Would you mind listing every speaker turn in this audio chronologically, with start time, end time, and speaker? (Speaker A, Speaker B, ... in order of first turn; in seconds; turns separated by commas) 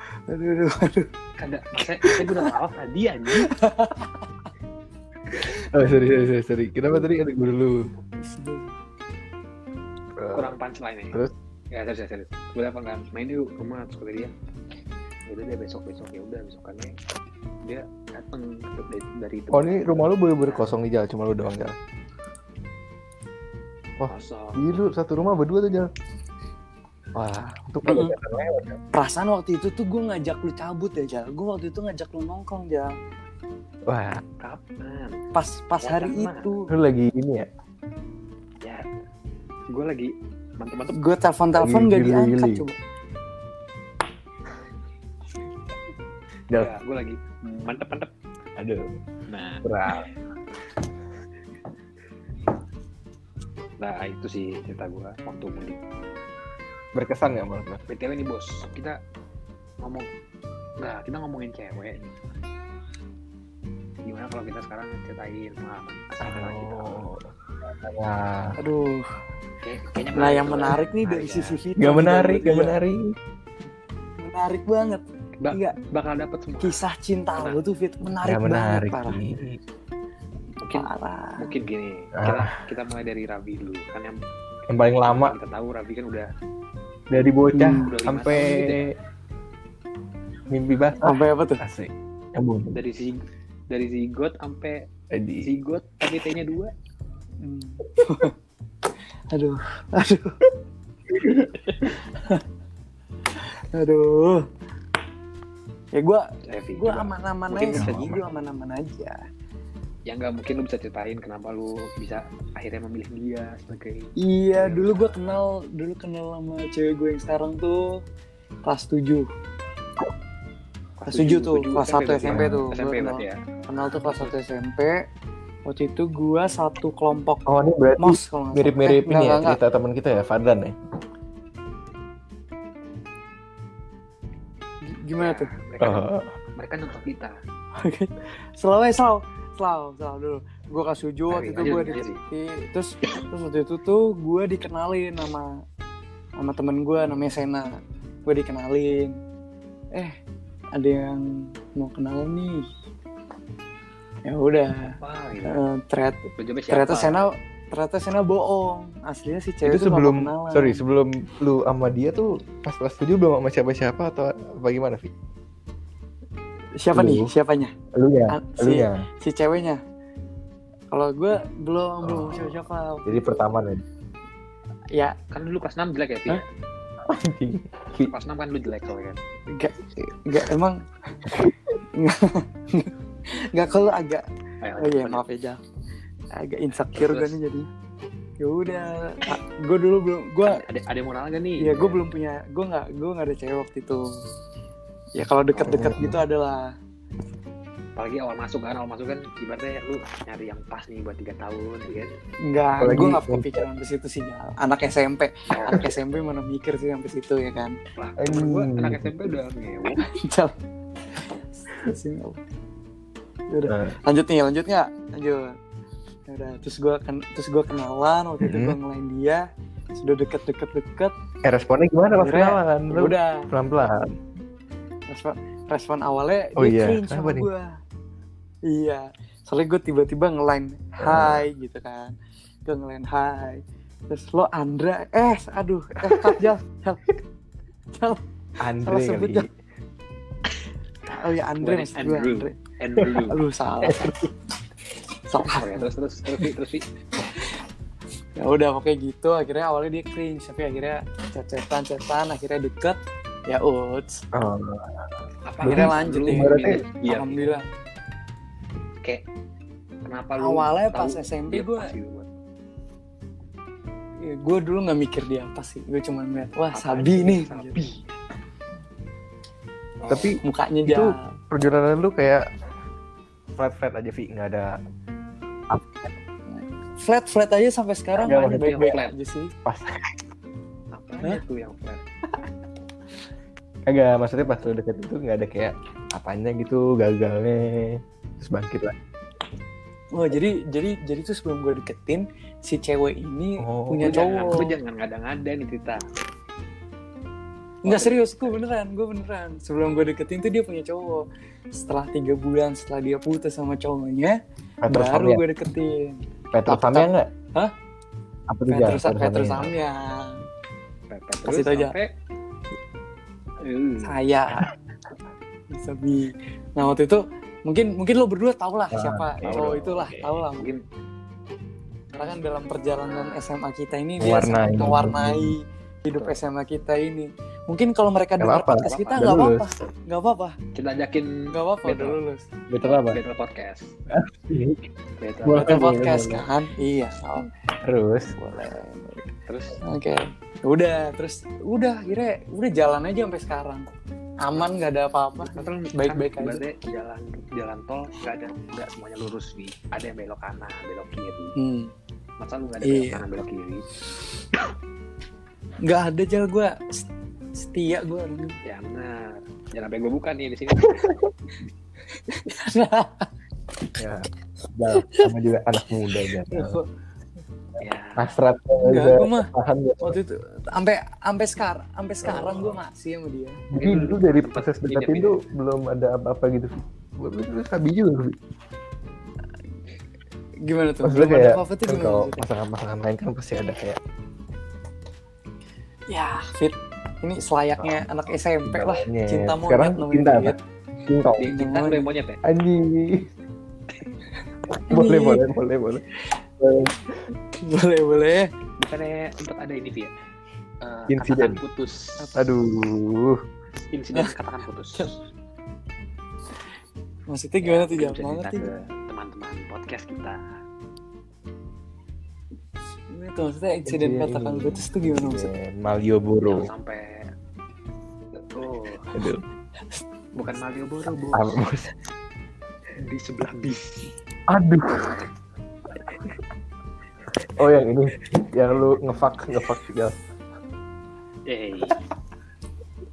Speaker A: 0.3-1.1, Speaker B: 1.4-3.5, Speaker A: 1.9-2.4, Speaker A: 3.3-4.1, Speaker C: 5.4-7.9, Speaker A: 5.8-6.1, Speaker A: 8.2-8.6, Speaker C: 10.2-10.6, Speaker B: 10.3-11.1, Speaker B: 11.7-14.3, Speaker B: 15.3-16.9, Speaker B: 17.6-19.9, Speaker C: 19.5-21.8, Speaker B: 20.4-20.7, Speaker C: 24.0-25.9, Speaker B: 24.1-24.6, Speaker C: 27.1-28.8, Speaker A: 27.9-28.1, Speaker A: 28.9-32.9, Speaker C: 33.9-34.2, Speaker B: 34.4-35.2, Speaker A: 35.3-36.7, Speaker B: 35.8-36.5, Speaker C: 36.7-37.5, Speaker B: 39.7-41.0, Speaker A: 40.9-42.8, Speaker C: 41.6-42.7, Speaker B: 46.5-48.1, Speaker C: 48.6-48.9, Speaker B: 49.3-50.0, Speaker C: 49.6-50.0, Speaker B: 53.8-55.8, Speaker C: 56.9-57.8, Speaker B: 57.9-59.0, Speaker B: 59.8-60.1, Speaker B: 60.8-62.1, Speaker B: 64.0-67.0, Speaker C: 66.2-68.6, Speaker A: 68.6-69.1, Speaker B: 69.6-71.6, Speaker A: 70.2-72.8, Speaker C: 71.8-73.1, Speaker A: 74.2-75.8, Speaker B: 75.4-76.8, Speaker A: 76.6-79.2, Speaker C: 78.2-79.6, Speaker B: 80.6-84.2, Speaker A: 80.7-81.5, Speaker C: 82.2-82.5, Speaker C: 84.7-85.4, Speaker B: 85.0-86.3, Speaker C: 87.1-88.9, Speaker A: 87.5-87.9, Speaker B: 87.7-88.8, Speaker C: 90.5-92.8, Speaker A: 91.0-91.6, Speaker B: 92.7-94.8, Speaker C: 95.1-95.5, Speaker B: 95.4-96.7, Speaker A: 97.4-98.3, Speaker A: 99.3-100.4, Speaker A: 101.2-101.5, Speaker A: 102.1-102.4, Speaker A: 103.7-104.5, Speaker A: 105.9-109.2, Speaker B: 106.5-108.2, Speaker C: 107.7-108.2, Speaker B: 110.1-115.4, Speaker A: 114.2-118.0, Speaker A: 118.7-119.3, Speaker B: 121.0-124.4, Speaker A: 121.1-125.0, Speaker C: 122.3-122.6, Speaker A: 125.7-127.5, Speaker C: 127.5-130.7, Speaker A: 128.0-129.6, Speaker A: 134.8-135.5, Speaker B: 135.2-137.3, Speaker C: 135.8-136.3, Speaker A: 137.8-145.6, Speaker B: 141.3-142.2, Speaker A: 146.4-147.7, Speaker A: 148.2-149.2, Speaker A: 150.7-152.7, Speaker A: 154.2-160.8, Speaker B: 154.8-155.6, Speaker B: 156.4-157.2, Speaker C: 159.6-165.1, Speaker A: 166.8-167.7, Speaker C: 166.9-167.3, Speaker C: 167.9-169.1, Speaker A: 168.3-169.8, Speaker A: 170.9-173.5, Speaker C: 172.0-173.8, Speaker B: 175.3-176.4, Speaker C: 177.0-178.1, Speaker B: 178.0-179.2, Speaker A: 179.5-180.8, Speaker A: 181.9-184.2, Speaker B: 184.6-185.2, Speaker A: 184.8-185.6, Speaker A: 186.3-187.7, Speaker B: 186.9-187.4, Speaker A: 188.4-190.6, Speaker B: 190.4-192.0, Speaker A: 191.6-194.2, Speaker A: 195.2-196.7, Speaker C: 195.6-196.2, Speaker B: 198.0-202.1, Speaker A: 202.4-207.8, Speaker C: 202.8-203.6, Speaker B: 205.5-205.8, Speaker B: 207.9-210.1, Speaker C: 208.2-209.1, Speaker A: 210.0-210.5, Speaker A: 211.7-212.4, Speaker A: 213.5-215.6, Speaker C: 213.7-213.9, Speaker A: 216.3-219.4, Speaker C: 218.4-218.8, Speaker A: 219.9-221.1, Speaker C: 221.4-224.2, Speaker A: 222.2-223.5, Speaker A: 225.1-227.8, Speaker C: 226.6-227.5, Speaker A: 228.7-232.1, Speaker C: 231.0-231.4, Speaker A: 232.7-237.0, Speaker C: 236.0-236.4, Speaker A: 237.9-238.2, Speaker C: 238.6-239.5, Speaker A: 238.8-239.5, Speaker A: 241.1-244.2, Speaker B: 241.6-244.1, Speaker C: 243.9-244.3, Speaker A: 245.2-245.9, Speaker B: 245.5-246.8, Speaker A: 248.3-254.2, Speaker C: 254.3-256.8, Speaker B: 255.4-257.6, Speaker A: 255.6-257.6, Speaker B: 260.1-262.3, Speaker A: 260.4-261.9, Speaker A: 264.2-267.8, Speaker B: 266.7-268.0, Speaker B: 270.0-270.3, Speaker C: 270.1-272.4, Speaker A: 270.4-271.2, Speaker C: 273.6-274.8, Speaker A: 276.5-279.5, Speaker B: 278.2-279.1, Speaker C: 278.2-278.9, Speaker C: 279.6-280.1, Speaker B: 280.9-282.0, Speaker C: 283.9-288.9, Speaker A: 290.1-294.7, Speaker C: 293.6-294.2, Speaker B: 294.0-296.1, Speaker B: 297.8-298.6, Speaker A: 297.8-307.7, Speaker C: 304.8-305.4, Speaker C: 306.5-307.3, Speaker C: 308.5-309.7, Speaker A: 308.7-310.4, Speaker B: 311.1-312.1, Speaker A: 311.5-311.9, Speaker B: 313.6-314.1, Speaker A: 314.0-314.6, Speaker A: 315.7-320.7, Speaker C: 318.9-320.4, Speaker B: 319.4-319.9, Speaker B: 320.6-320.8, Speaker A: 322.1-330.6, Speaker B: 323.0-323.5, Speaker C: 324.2-325.5, Speaker C: 328.4-329.7, Speaker B: 328.8-329.3, Speaker B: 330.7-332.2, Speaker A: 331.5-332.5, Speaker C: 332.7-333.2, Speaker B: 332.8-334.0, Speaker C: 334.1-334.9, Speaker B: 335.2-336.0, Speaker C: 335.4-336.5, Speaker A: 335.5-337.5, Speaker C: 337.8-338.3, Speaker A: 338.3-339.2, Speaker B: 339.5-339.8, Speaker A: 339.8-343.8, Speaker A: 344.4-346.6, Speaker B: 345.4-351.5, Speaker A: 351.6-351.9, Speaker B: 352.4-353.9, Speaker A: 352.8-353.2, Speaker A: 355.8-358.6, Speaker B: 358.6-361.2, Speaker A: 362.2-363.3, Speaker C: 364.0-366.8, Speaker A: 364.9-365.3, Speaker A: 366.4-366.9, Speaker B: 367.8-368.3, Speaker C: 368.1-370.2, Speaker A: 368.8-373.6, Speaker C: 372.2-372.8, Speaker C: 373.7-378.4, Speaker B: 373.8-375.4, Speaker A: 380.6-382.4, Speaker C: 381.0-384.0, Speaker A: 386.1-390.6, Speaker C: 387.8-388.0, Speaker C: 388.6-391.5, Speaker B: 391.4-392.4, Speaker A: 391.4-392.1, Speaker C: 392.4-393.3, Speaker A: 394.7-395.5, Speaker C: 394.8-396.0, Speaker C: 396.6-397.2, Speaker A: 397.5-398.5, Speaker B: 398.8-400.1, Speaker B: 400.8-402.2, Speaker C: 401.1-401.6, Speaker C: 402.3-403.4, Speaker B: 403.9-405.2, Speaker A: 407.3-408.7, Speaker B: 407.6-410.5, Speaker A: 413.1-415.5, Speaker C: 413.9-416.7, Speaker B: 416.4-417.3, Speaker B: 418.4-419.1, Speaker C: 419.1-419.4, Speaker B: 420.3-421.5, Speaker C: 421.3-421.9, Speaker B: 423.0-424.1, Speaker C: 424.5-425.2, Speaker C: 427.6-430.2, Speaker B: 431.4-432.0